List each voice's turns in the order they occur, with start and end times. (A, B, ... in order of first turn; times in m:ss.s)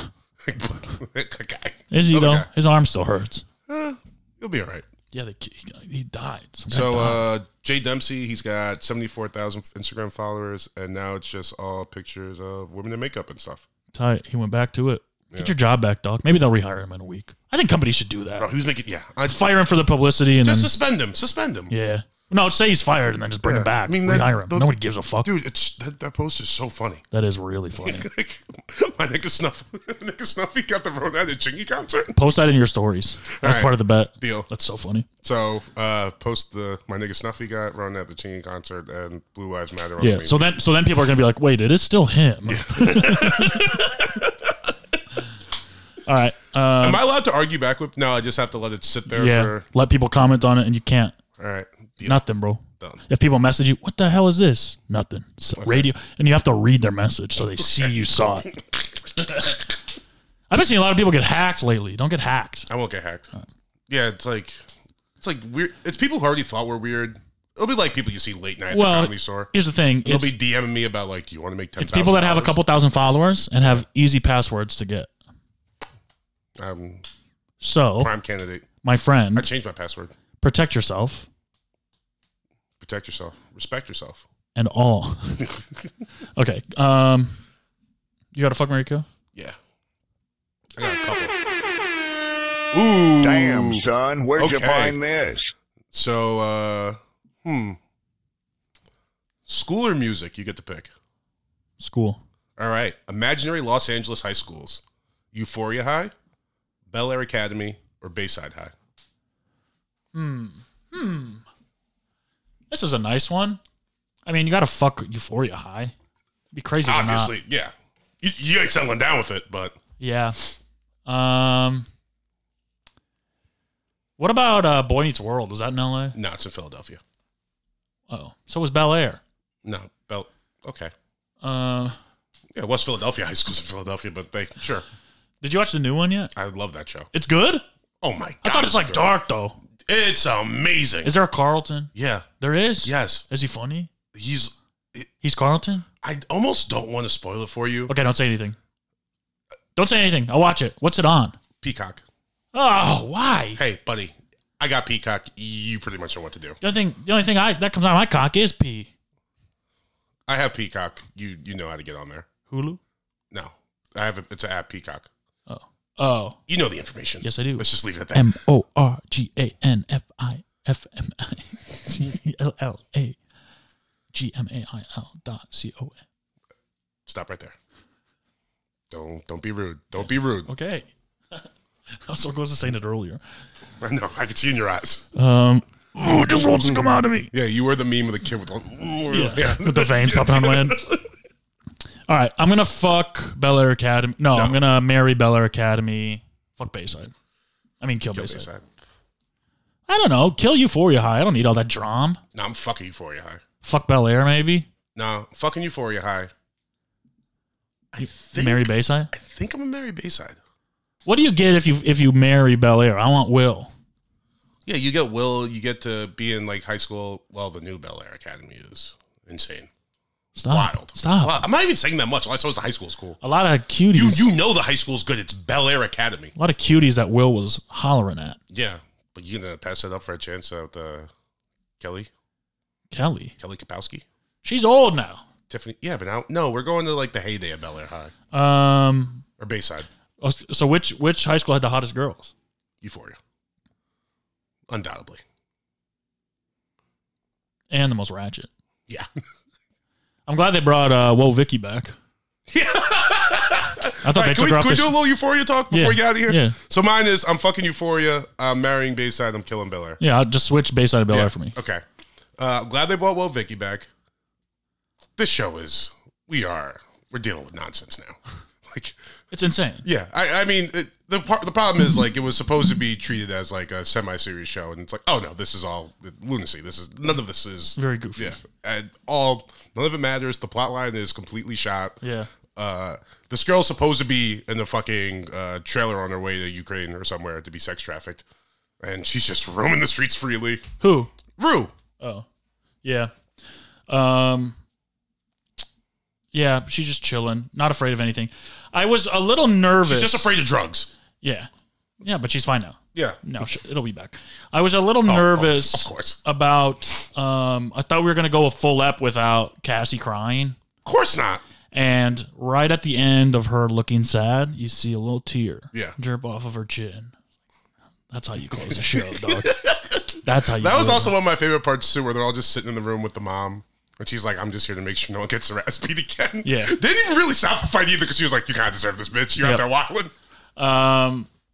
0:00.4-0:02.5 A
0:01.9-0:03.4 B
0:03.7-0:04.9 A
0:05.1-0:07.2 B
0:06.7-0:13.6 A
0:13.9-0:18.5 B
0:18.4-0:19.4 A
0:19.2-0:20.7 B
0:20.4-0:21.7 A
0:21.7-0:25.3 B
0:23.4-0:27.0 A
0:27.1-0:28.1 B
0:27.8-0:32.2 A
0:32.1-0:35.1 B
0:33.4-0:34.5 A
0:35.2-0:40.5 A
0:40.0-0:43.8 B
0:42.4-0:44.5 A
0:46.0-0:47.0 B
0:46.8-0:49.7 A
0:49.1-0:51.2 B
0:51.4-0:52.2 A
0:52.0-0:58.5 B
0:55.6-0:55.9 A
0:57.6-0:57.9 A
0:58.5-0:59.6 A
1:00.5-1:02.7 B
1:02.7-1:03.3 A
1:03.9-1:04.6 A
1:05.2-1:09.5 A
1:08.7-1:10.4 B
1:10.0-1:12.6 A
1:11.8-1:15.1 B
1:16.6-1:17.0 A
1:17.6-1:18.1 B
1:18.0-1:18.7 A
1:18.8-1:19.5 B
1:19.3-1:20.1 A
1:20.4-1:21.3 B
1:22.8-1:24.2 A
1:24.6-1:25.5 B
1:25.4-1:25.6 A
1:26.4-1:27.4 B
1:28.3-1:29.1 B
1:30.8-1:31.4 A
1:32.7-1:33.9 A
1:33.2-1:35.5 C
1:34.4-1:35.0 A
1:35.9-1:37.8 A
1:39.5-1:40.9 A
1:41.8-1:42.2 B
1:42.6-1:44.8 A
1:45.3-1:46.1 A
1:46.9-1:48.7 A
1:50.1-1:51.4 B
1:52.7-1:53.6 B
1:54.3-1:55.9 B
1:56.5-1:57.3 B
1:56.8-1:59.8 A
2:00.0-2:00.4 B
2:01.0-2:01.9 B
2:04.2-2:06.2 B
2:06.2-2:07.0 A
2:08.1-2:09.2 B
2:09.6-2:10.9 A
2:11.4-2:12.0 B
2:12.5-2:14.8 A
2:15.4-2:16.3 B
2:16.4-2:17.1 A
2:17.1-2:17.6 B
2:18.0-2:19.1 A
2:18.4-2:19.6 B
2:19.9-2:21.1 A
2:21.0-2:23.9 B
2:21.9-2:22.3 A
2:22.8-2:23.2 A
2:24.1-2:25.1 A
2:25.2-2:25.9 B
2:26.0-2:27.9 A
2:27.9-2:28.6 B
2:29.8-2:31.4 B
2:31.6-2:32.0 A
2:32.5-2:33.6 B
2:33.6-2:36.6 A
2:36.6-2:38.9 B
2:40.3-2:42.3 A
2:42.5-2:42.8 B
2:43.3-2:45.1 A
2:45.5-2:46.4 B
2:46.5-2:48.4 A
2:47.2-2:53.2 B
2:54.1-2:56.0 B
2:57.1-2:57.6 A
2:58.9-3:00.5 A
3:00.5-3:01.5 B
3:02.0-3:03.2 B
3:03.8-3:05.1 A
3:05.2-3:07.3 B
3:07.3-3:11.0 A
3:09.1-3:10.8 B
3:12.1-3:17.1 B
3:14.3-3:14.6 A
3:17.8-3:18.5 B
3:18.1-3:18.7 A
3:19.9-3:22.2 B
3:22.3-3:23.4 A
3:23.6-3:24.7 B
3:25.0-3:26.3 A
3:27.9-3:30.4 A
3:28.0-3:29.1 B
3:31.1-3:33.7 B
3:34.6-3:39.7 A
3:40.4-3:41.4 B
3:40.5-3:43.2 A
3:43.2-3:44.3 B
3:43.9-3:46.3 A
3:46.4-3:48.4 B
3:48.5-3:51.1 A
3:51.8-3:52.1 A
3:52.9-3:53.3 B
3:53.4-3:54.0 A
3:54.4-3:55.3 B
3:55.5-3:58.1 A
3:58.3-3:59.2 B
3:59.4-3:59.9 A
4:00.2-4:02.3 B
4:02.8-4:03.2 A
4:04.7-4:05.2 A
4:07.7-4:08.5 B
4:10.3-4:12.0 B
4:12.5-4:20.0 A
4:14.0-4:15.0 B
4:15.7-4:16.6 B
4:20.0-4:21.6 B
4:21.1-4:21.8 A
4:22.4-4:23.9 A
4:25.2-4:29.0 A
4:29.3-4:29.8 B
4:29.8-4:42.0 A
4:37.8-4:38.4 B
4:42.0-4:42.3 B
4:42.6-4:48.2 A
4:48.8-4:50.7 A
4:50.8-4:51.1 B
4:51.3-4:51.7 A
4:52.0-4:52.3 B
4:52.8-4:53.1 B
4:53.9-4:54.6 B
4:56.3-5:00.3 B
4:59.8-5:00.9 A
5:01.2-5:01.5 B
5:02.0-5:10.6 B
5:03.0-5:03.2 A
5:05.1-5:06.2 A
5:10.8-5:11.4 A
5:11.7-5:17.2 B
5:18.1-5:19.6 B
5:18.7-5:30.1 A
5:20.2-5:21.1 B
5:26.4-5:26.8 B
5:30.6-5:31.3 B